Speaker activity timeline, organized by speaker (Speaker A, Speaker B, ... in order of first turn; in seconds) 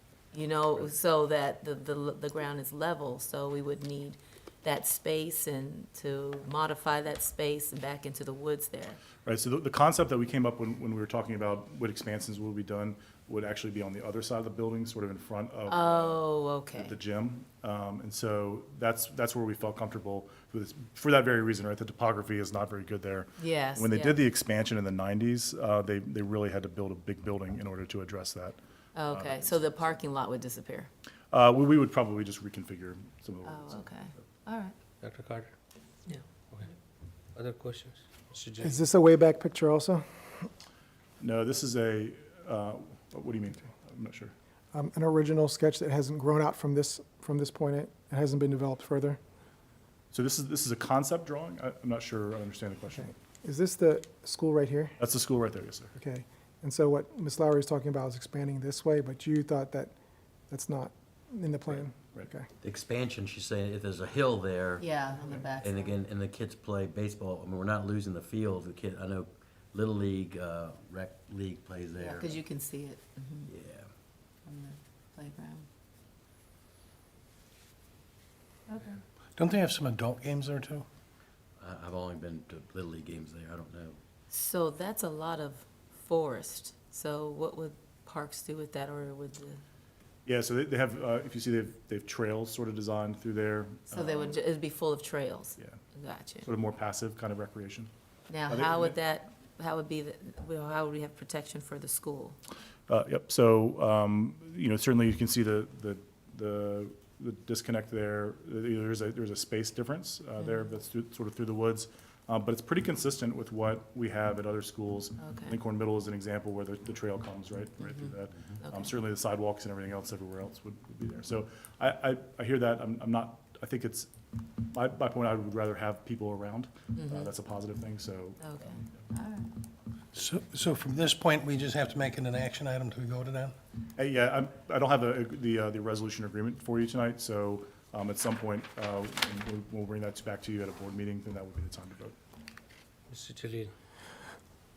Speaker A: 0.3-9.0, 15.7-17.0, 23.4-24.2, 28.9-30.9, 33.4-34.7, 64.8-66.0, 72.0-73.5, 74.5-75.7, 78.7-79.0, 84.3-89.6, 93.9-96.5, 98.3-102.4, 115.2-115.5, 117.8-118.1, 118.6-118.9, 126.9-127.3, 128.4-129.5
Speaker B: 9.2-16.2, 16.7-28.6, 29.1-29.9, 31.3-33.9, 41.2-44.3, 50.1-53.1, 55.0-55.9, 61.7-62.3, 90.2-94.4, 96.4-97.9, 98.5-98.9, 102.9-124.1, 124.7-128.8, 133.9-142.1
Speaker C: 35.0-35.5, 37.3-38.8, 143.1-143.7
Speaker D: 38.6-40.0, 44.7-49.2, 53.4-55.0, 55.9-59.9, 60.5-62.5
Speaker E: 62.6-64.9, 65.6-72.4, 73.5-73.9, 81.6-84.0
Speaker F: 79.4-80.8, 130.1-133.6